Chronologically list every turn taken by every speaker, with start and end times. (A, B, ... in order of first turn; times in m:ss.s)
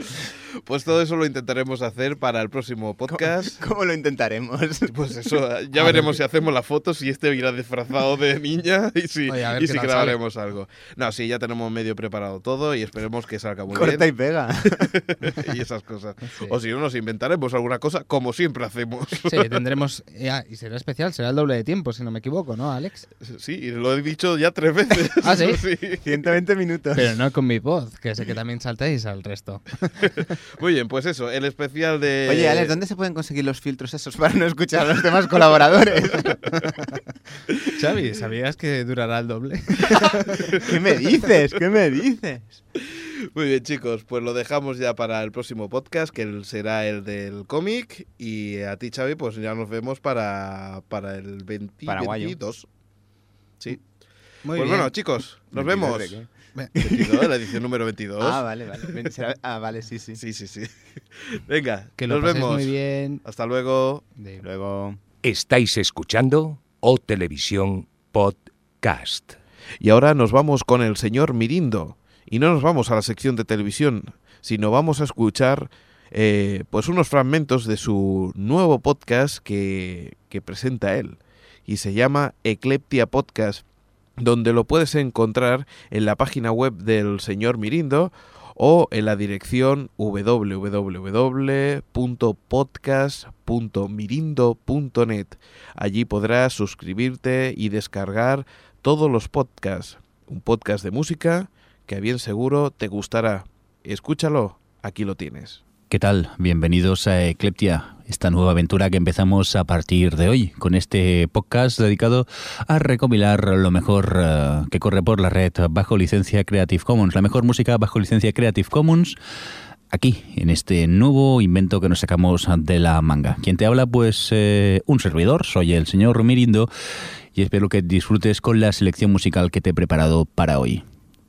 0:00.2-0:03.6 A
0:03.1-0:04.9 B
0:04.9-0:14.1 A
0:05.8-0:06.1 C
0:09.3-0:10.2 C
0:13.7-0:15.0 B
0:14.8-0:19.5 A
0:16.3-0:16.6 C
0:19.2-0:23.1 C
0:23.2-0:26.3 A
0:25.2-0:25.6 C
0:25.9-0:27.2 B
0:26.9-0:30.3 C
0:30.5-0:32.7 A
0:32.2-0:36.4 B
0:37.7-0:40.6 C
0:40.6-0:42.6 B
0:42.8-0:52.7 A
0:51.8-0:52.4 B
0:54.4-0:54.9 C
0:54.5-0:56.2 A
0:55.5-0:57.2 B
0:56.8-0:58.4 A
0:58.2-1:00.2 B
1:00.2-1:04.0 A
1:02.0-1:03.2 C
1:04.2-1:04.4 C
1:04.4-1:05.0 B
1:05.2-1:09.4 D
1:09.8-1:23.6 A
1:24.2-1:45.6 A
1:45.9-1:59.2 E
1:59.9-2:06.7 E
2:07.3-2:10.8 E